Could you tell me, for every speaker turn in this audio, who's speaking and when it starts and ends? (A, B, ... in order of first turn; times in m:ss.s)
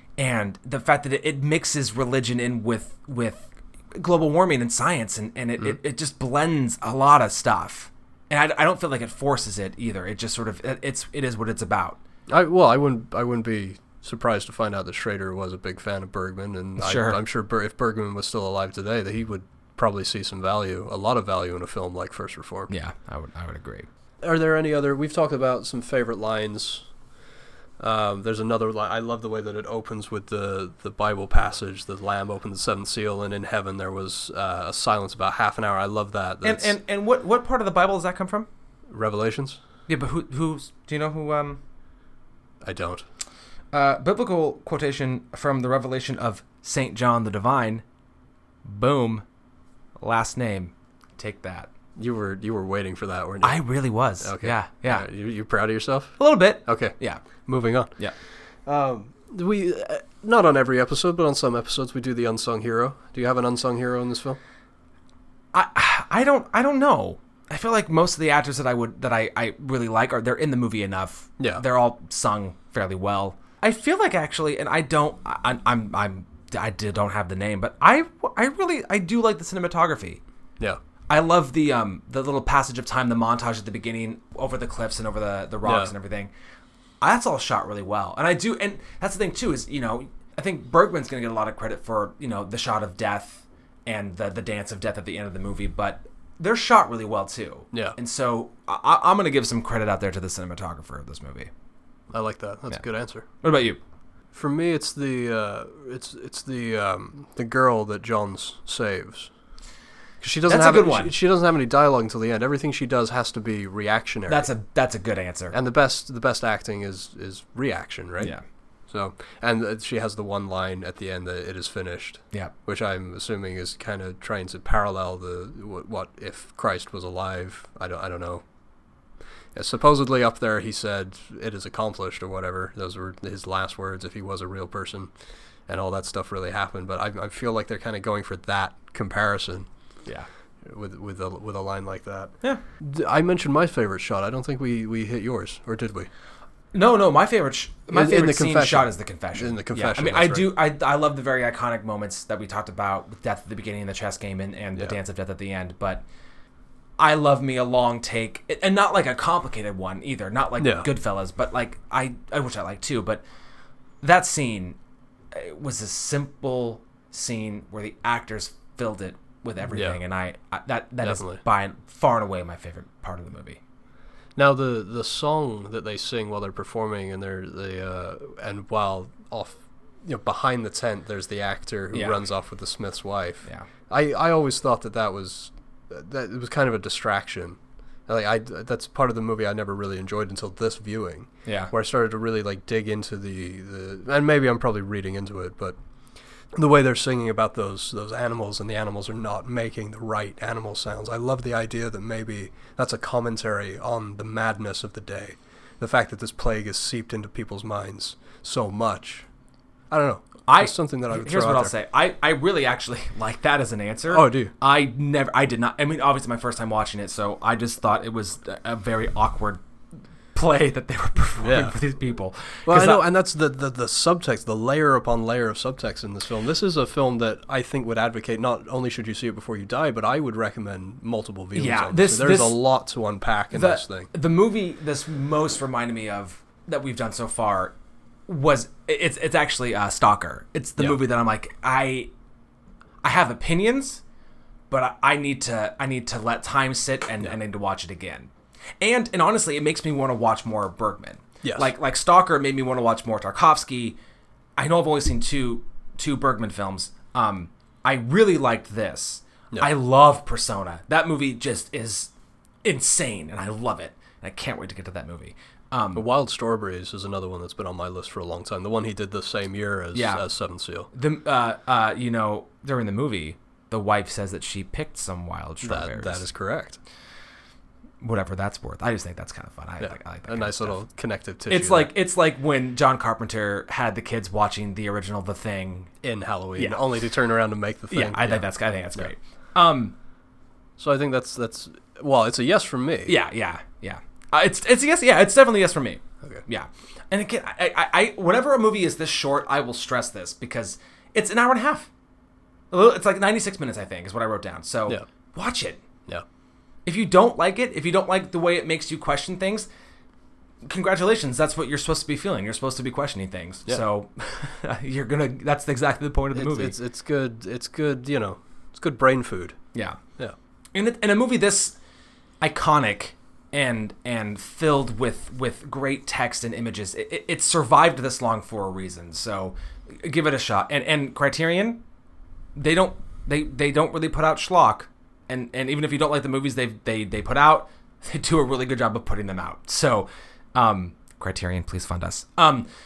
0:00.2-0:12.0 A
0:12.3-0:22.7 B
0:16.8-0:17.2 A
0:22.7-0:23.9 A
0:24.2-0:26.9 B
0:27.8-0:36.8 B
0:36.4-0:38.5 A
0:38.9-0:39.6 B
0:39.9-0:41.6 A
0:42.6-0:43.0 B
0:43.7-0:47.8 A
0:48.6-0:49.2 A
0:50.0-0:51.7 A
0:52.0-0:53.6 B
0:53.4-0:55.1 A
0:54.2-0:56.9 B
0:56.2-0:57.2 A
0:57.4-0:57.9 B
0:58.6-1:04.4 B
1:05.5-1:20.2 A
1:21.1-1:26.3 A
1:25.6-1:25.9 B
1:27.0-1:41.5 A
1:37.7-1:38.0 B
1:42.1-1:43.2 B
1:43.4-1:43.8 A
1:44.3-1:49.3 B
1:50.2-1:54.5 B
1:50.5-1:51.2 A
1:54.3-1:55.5 A
1:55.5-1:58.3 B
1:58.9-2:08.4 B
2:09.5-2:15.1 B
2:15.7-2:19.7 B
2:20.6-2:26.1 B
2:26.7-2:36.0 A
2:27.9-2:30.5 B
2:37.0-2:43.2 A
2:40.6-2:40.9 B
2:44.0-2:44.8 A
2:45.3-2:53.6 A
2:49.7-2:50.0 B
2:51.0-2:51.4 B
2:54.4-3:15.8 B
3:11.4-3:11.7 A
3:16.5-3:29.3 B
3:29.9-3:31.7 B
3:30.5-3:39.6 A
3:34.1-3:34.5 B
3:40.3-3:43.0 A
3:41.4-3:41.8 B
3:42.6-3:54.1 B
3:51.5-3:52.6 A
3:53.5-3:57.7 A
3:58.3-4:02.1 A
4:03.0-4:04.0 A
4:04.7-4:08.3 A
4:08.8-4:14.0 A
4:11.4-4:11.7 B
4:14.6-4:22.1 A
4:22.6-4:26.0 A
4:25.9-4:30.9 B
4:29.9-4:30.2 A
4:30.9-4:36.3 A
4:35.6-4:36.8 B
4:38.0-4:40.8 A
4:39.8-4:41.9 B
4:41.5-4:45.9 A
4:46.0-4:49.1 B
4:47.9-4:49.9 A
4:50.8-4:53.1 B
4:53.1-5:01.9 A
5:02.7-5:05.8 A
5:06.8-5:09.7 A
5:10.6-5:16.7 A
5:16.3-5:19.6 B
5:19.7-5:20.0 A
5:20.7-5:21.8 A
5:22.4-5:31.8 A
5:32.6-5:42.7 A